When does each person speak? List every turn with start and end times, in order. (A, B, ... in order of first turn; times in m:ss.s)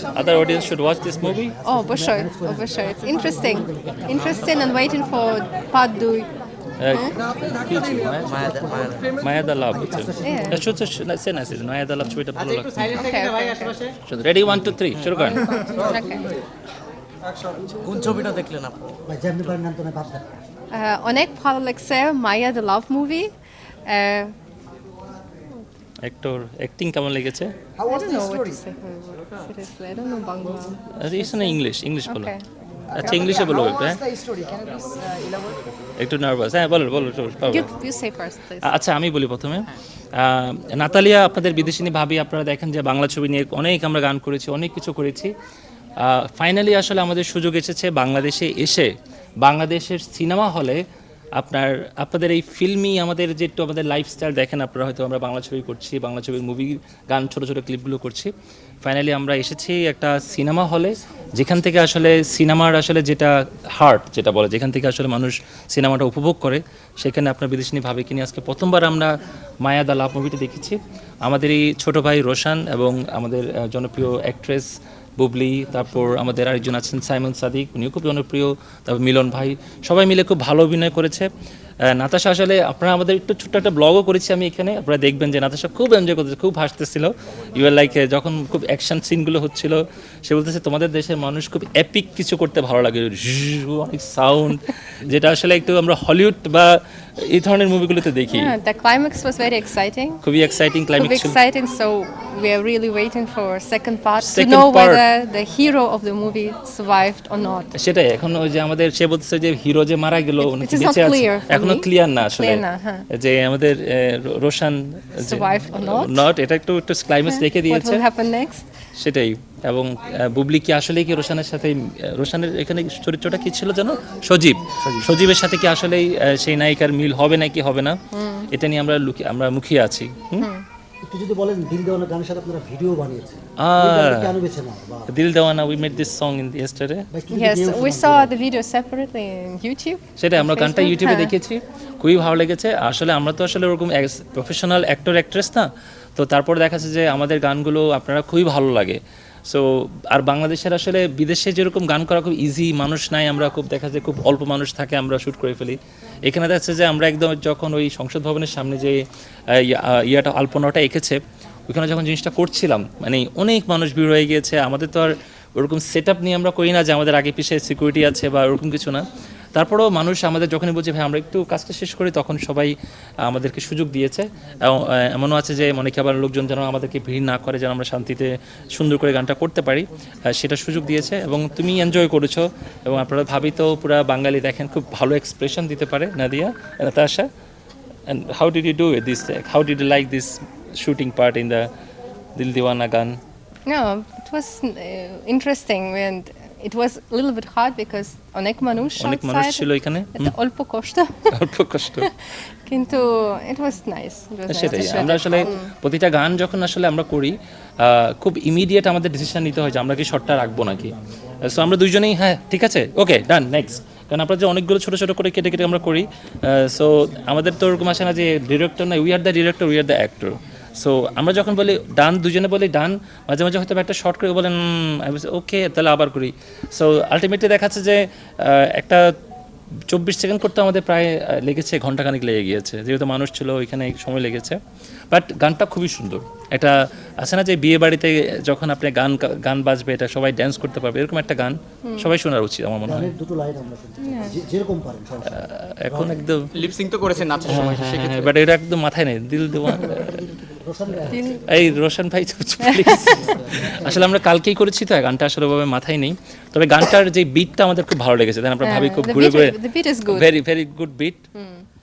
0:00.1-0:01.5 A
0:01.2-0:04.2 B
0:01.6-0:06.3 C
0:06.8-0:08.4 A
0:06.9-0:07.1 C
0:08.2-0:09.1 D
0:08.4-0:08.8 B
0:09.2-0:13.1 A
0:09.7-0:10.6 B
0:10.2-0:10.6 C
0:12.3-0:13.9 E
0:12.9-0:13.8 C
0:14.0-0:15.6 A
0:15.2-0:16.3 C
0:17.8-0:18.9 D
0:19.1-0:20.4 B
0:20.7-0:23.3 C
0:23.8-0:24.3 C
0:26.0-0:27.5 A
0:27.8-0:33.4 C
0:31.0-0:32.3 A
0:32.9-0:34.0 A
0:34.5-0:35.0 B
0:36.0-0:37.7 A
0:37.4-0:38.7 C
0:38.6-0:45.3 A
0:46.0-0:50.8 A
0:51.4-0:58.3 A
0:58.8-1:09.1 A
1:09.6-1:21.3 A
1:21.9-1:38.5 A
1:38.3-1:40.2 C
1:40.2-1:41.4 A
1:41.0-1:47.7 C
1:44.2-1:45.0 A
1:47.8-1:58.0 A
1:50.4-1:53.0 C
1:55.2-1:56.2 C
1:57.2-1:58.6 C
1:59.0-2:08.0 A
2:04.8-2:05.1 B
2:08.1-2:08.5 C
2:08.5-2:10.5 A
2:10.4-2:10.6 C
2:11.0-2:15.1 B
2:13.6-2:14.3 A
2:15.1-2:17.1 A
2:17.1-2:18.3 B
2:17.3-2:21.3 C
2:20.2-2:39.0 A
2:39.5-3:07.3 A
3:08.1-3:11.7 A
3:12.4-3:13.2 A
3:13.7-3:21.3 C
3:19.0-3:20.3 A
3:21.3-3:22.1 A
3:21.9-3:25.7 C
3:24.5-3:49.1 A
3:49.9-3:54.6 A
3:55.1-4:03.1 A
4:01.8-4:02.1 C
4:02.8-4:06.2 B
4:04.0-4:04.4 C
4:05.3-4:06.5 A
4:06.5-4:08.3 E
4:07.1-4:07.8 B
4:07.4-4:10.2 A
4:09.6-4:11.4 B
4:11.1-4:11.6 C
4:11.5-4:21.2 A
4:12.6-4:13.5 C
4:13.3-4:13.9 B
4:18.6-4:20.3 C
4:21.3-4:21.6 C